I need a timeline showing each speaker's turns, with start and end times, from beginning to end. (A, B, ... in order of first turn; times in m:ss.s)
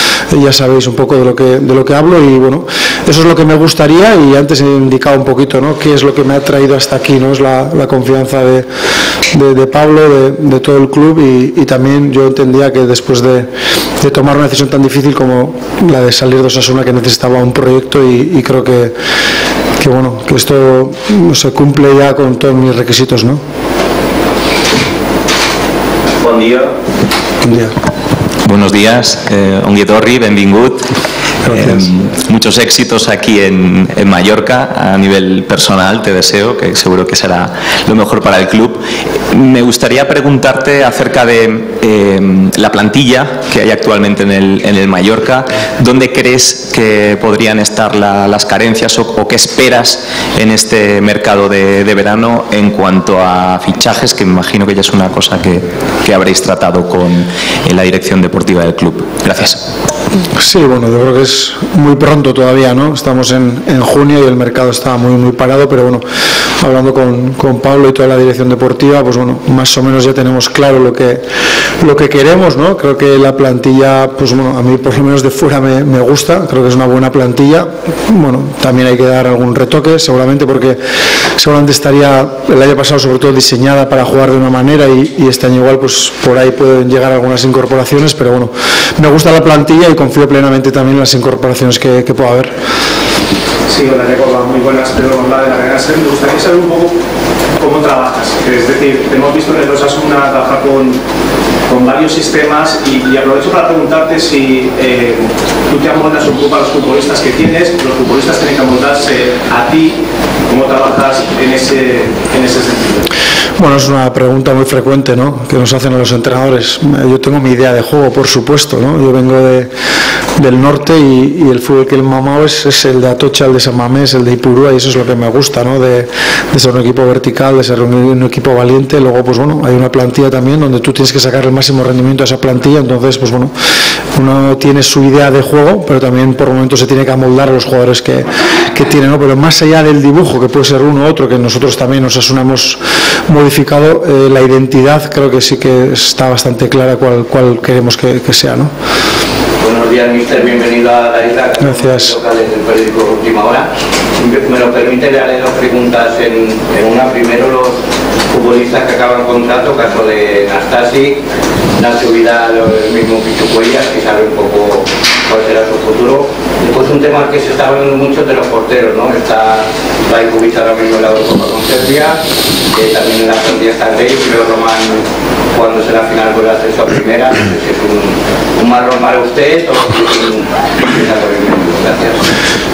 0:00.3-0:08.7 A
0:09.3-0:19.0 A
0:19.8-0:23.4 A
0:26.2-0:26.7 B
0:27.4-0:27.7 A
0:28.4-0:30.9 B
0:31.4-0:31.8 A
0:31.5-0:59.6 B
1:00.4-1:06.0 A
1:06.6-1:11.2 A
1:11.8-1:20.8 A
1:21.4-1:32.6 A
1:33.7-1:37.0 C
1:37.6-1:41.0 C
1:41.7-1:53.0 C
1:53.6-1:59.7 A
2:00.4-2:13.5 A
2:14.2-2:28.7 A
2:29.6-2:41.2 D
2:31.6-2:32.2 A
2:41.8-3:02.2 D